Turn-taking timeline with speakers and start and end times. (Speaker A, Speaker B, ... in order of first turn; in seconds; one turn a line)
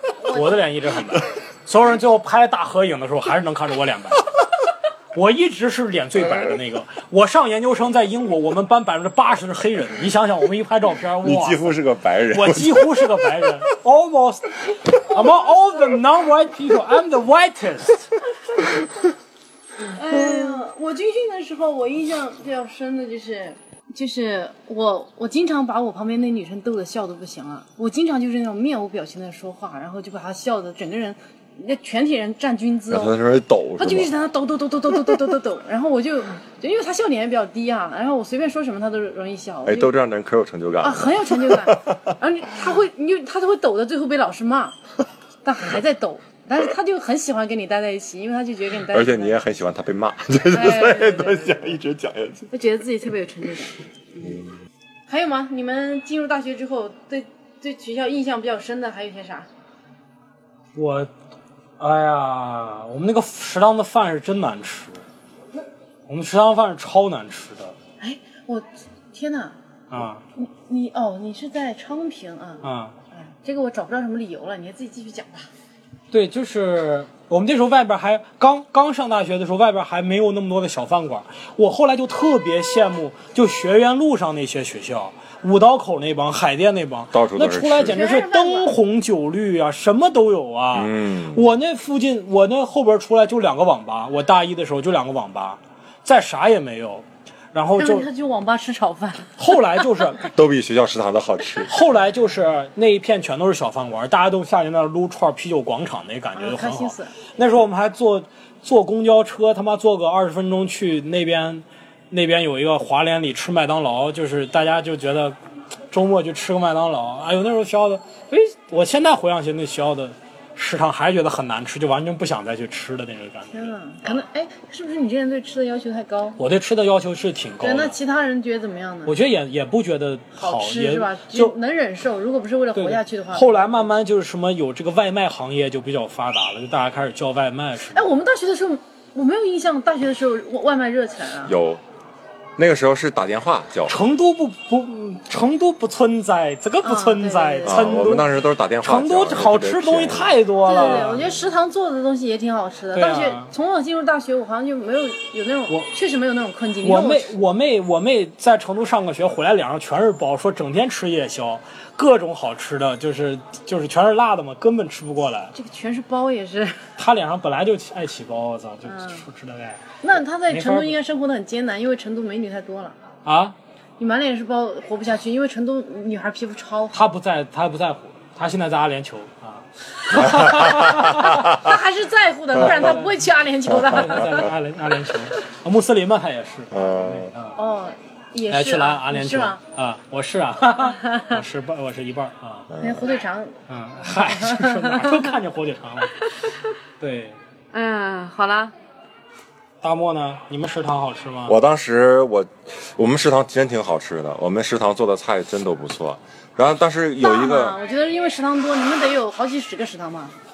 Speaker A: 0.2-0.7
Speaker B: 0.3-4.3
Speaker B: 5.1-11.8
Speaker C: 11.2-13.1
Speaker B: 12.3-18.1
Speaker A: 19.8-33.2
Speaker C: 32.9-34.1
Speaker A: 33.8-40.0
Speaker C: 39.6-42.0
Speaker A: 40.8-44.8
Speaker A: 45.4-49.4
Speaker C: 48.9-52.5
Speaker A: 50.5-51.7
Speaker A: 52.5-54.4
Speaker A: 55.1-59.5
Speaker B: 60.8-61.1
Speaker B: 61.8-65.0
Speaker B: 66.1-67.8
Speaker A: 68.0-69.6
Speaker B: 69.9-70.2
Speaker A: 70.4-75.5
Speaker B: 72.6-73.0
Speaker B: 76.1-98.1
Speaker C: 87.1-88.0
Speaker A: 87.9-88.7
Speaker C: 90.7-91.5
Speaker A: 97.8-99.4
Speaker B: 99.4-100.3
Speaker C: 100.2-101.7
Speaker B: 101.7-115.4
Speaker A: 106.3-107.1
Speaker B: 115.9-123.7
Speaker A: 123.5-126.4
Speaker B: 126.4-128.0
Speaker A: 127.6-129.2
Speaker B: 129.1-131.6
Speaker A: 130.4-133.9
Speaker B: 132.8-138.1
Speaker A: 137.9-141.6
Speaker C: 141.5-141.8
Speaker C: 142.6-144.0
Speaker B: 143.9-151.3
Speaker A: 146.8-148.1
Speaker C: 147.7-151.3
Speaker A: 150.7-157.3
Speaker B: 152.9-153.5
Speaker B: 156.8-165.5
Speaker A: 165.5-166.9
Speaker B: 167.0-169.8
Speaker A: 168.8-169.2
Speaker A: 170.0-173.0
Speaker B: 170.5-171.0
Speaker B: 173.2-173.6
Speaker A: 174.0-177.0
Speaker B: 176.9-181.4
Speaker C: 180.2-181.7
Speaker A: 181.2-184.5
Speaker B: 182.6-183.2
Speaker B: 183.8-187.6
Speaker C: 186.7-187.3
Speaker A: 187.6-189.6
Speaker B: 188.5-192.7
Speaker A: 190.8-191.4
Speaker C: 192.7-193.0
Speaker A: 192.8-193.6
Speaker B: 193.7-196.3
Speaker A: 194.2-195.3
Speaker A: 196.2-196.6
Speaker B: 197.0-197.4
Speaker A: 197.7-198.7
Speaker B: 199.8-201.6
Speaker C: 201.5-207.8
Speaker A: 207.2-210.3